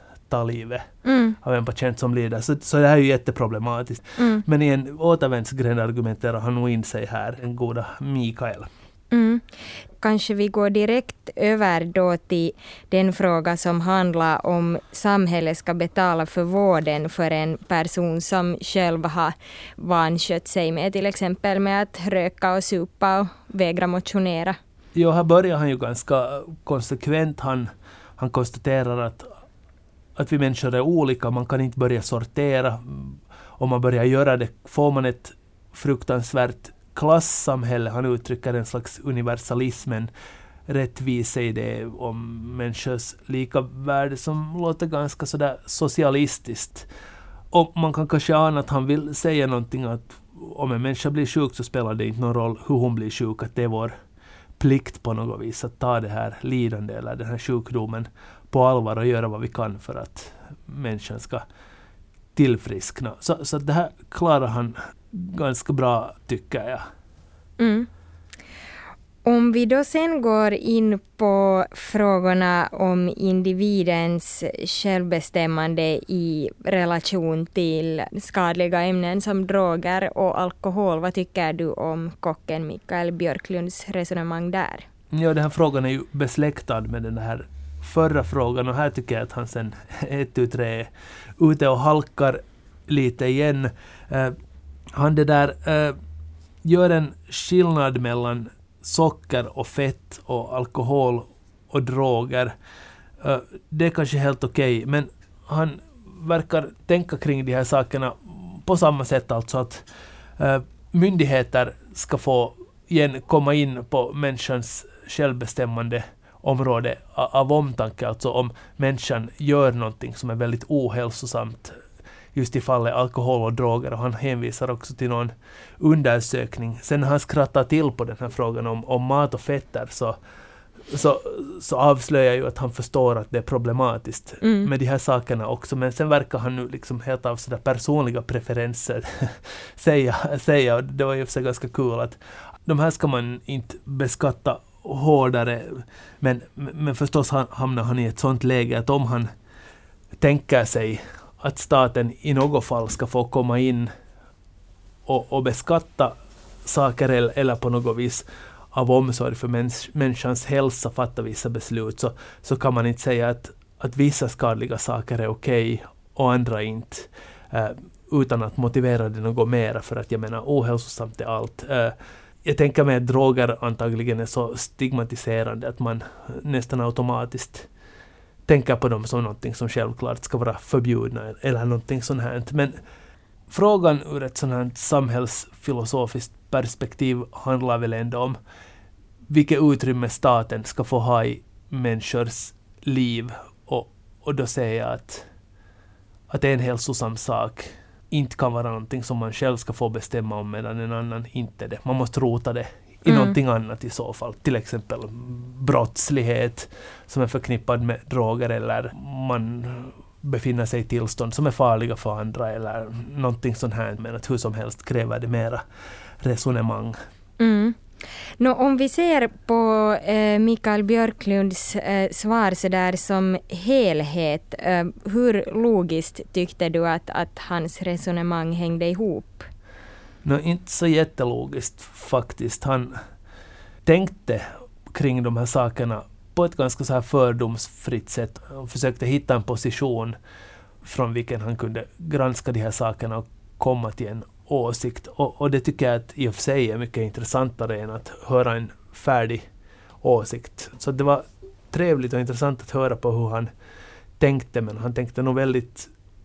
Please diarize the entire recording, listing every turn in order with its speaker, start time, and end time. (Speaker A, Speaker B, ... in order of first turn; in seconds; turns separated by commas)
Speaker A: 0.3-8.7, Speaker B: 1.1-1.4, Speaker B: 4.2-4.4, Speaker B: 9.1-9.4, Speaker B: 10.0-24.6, Speaker A: 24.9-29.3, Speaker A: 30.2-40.1, Speaker A: 40.7-46.9, Speaker A: 47.5-54.0, Speaker A: 54.6-61.5, Speaker A: 62.4-66.9, Speaker B: 67.6-67.9, Speaker B: 69.2-84.8, Speaker A: 85.1-94.4, Speaker A: 94.9-96.0, Speaker A: 96.7-102.5, Speaker A: 103.2-109.8, Speaker A: 110.4-121.8, Speaker A: 122.3-130.2, Speaker A: 130.9-149.3, Speaker B: 134.4-134.7, Speaker A: 150.2-153.9, Speaker A: 155.1-156.2, Speaker A: 156.7-177.7, Speaker A: 178.5-182.8, Speaker A: 183.5-188.4, Speaker A: 189.3-195.3, Speaker A: 196.3-215.6, Speaker B: 203.1-203.4, Speaker A: 216.2-217.0, Speaker B: 217.4-217.8, Speaker B: 218.4-229.5, Speaker A: 230.2-233.0, Speaker A: 233.9-240.2, Speaker A: 240.8-249.5, Speaker A: 250.0-253.5, Speaker A: 254.2-255.9